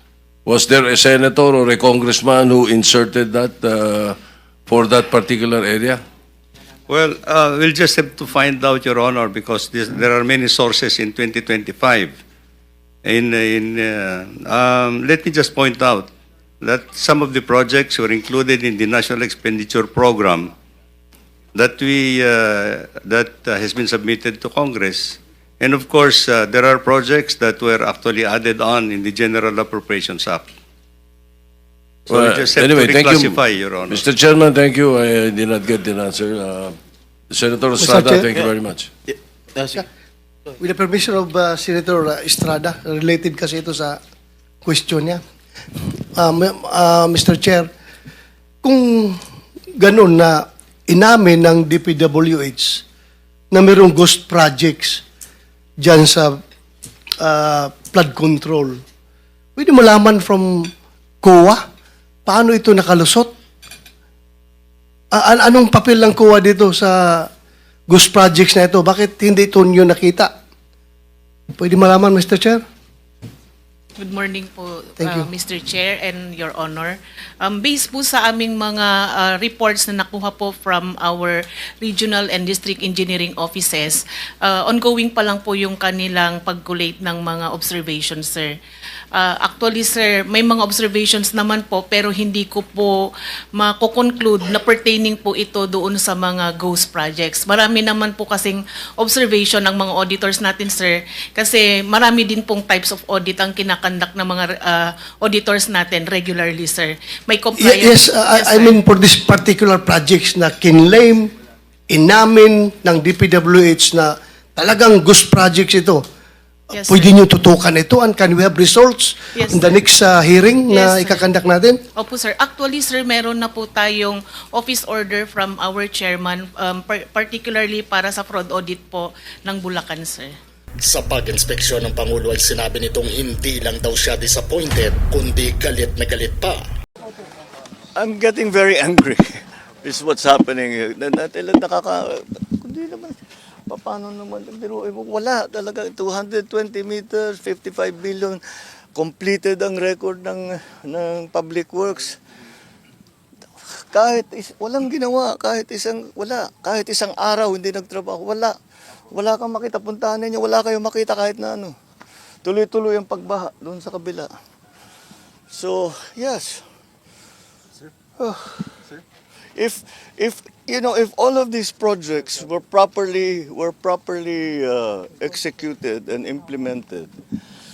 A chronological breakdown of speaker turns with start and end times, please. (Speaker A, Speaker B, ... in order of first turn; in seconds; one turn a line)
Speaker A: 0.5-6.0
Speaker B: 6.9-12.1
Speaker B: 13.0-16.1
Speaker B: 16.6-20.5
Speaker B: 21.5-30.4
Speaker B: 32.1-34.0
Speaker A: 32.1-36.7
Speaker A: 37.3-38.9
Speaker C: 37.8-38.3
Speaker C: 40.6-44.0
Speaker C: 44.6-45.2
Speaker C: 46.1-47.7
Speaker C: 48.6-49.2
Speaker C: 49.8-52.8
Speaker C: 53.5-55.0
Speaker C: 55.8-56.4
Speaker C: 57.2-58.8
Speaker C: 59.5-60.7
Speaker C: 61.2-61.6
Speaker C: 62.2-63.3
Speaker C: 65.1-67.3
Speaker C: 67.9-70.3
Speaker C: 71.5-72.6
Speaker D: 74.0-88.5
Speaker C: 75.0-75.3
Speaker D: 89.1-108.8
Speaker C: 107.6-111.3
Speaker C: 111.9-116.0
Speaker D: 116.7-117.1
Speaker C: 116.8-121.8
Speaker D: 119.3-119.8
Speaker D: 120.7-121.3
Speaker D: 121.9-130.3
Speaker E: 130.8-136.6
Speaker F: 137.9-143.2
Speaker F: 143.7-148.4
Speaker F: 148.9-152.2
Speaker F: 153.8-158.5
Speaker F: 159.1-161.7
Speaker F: 162.4-164.3
Speaker F: 165.5-166.6
Speaker F: 168.2-168.7
Speaker F: 169.6-177.1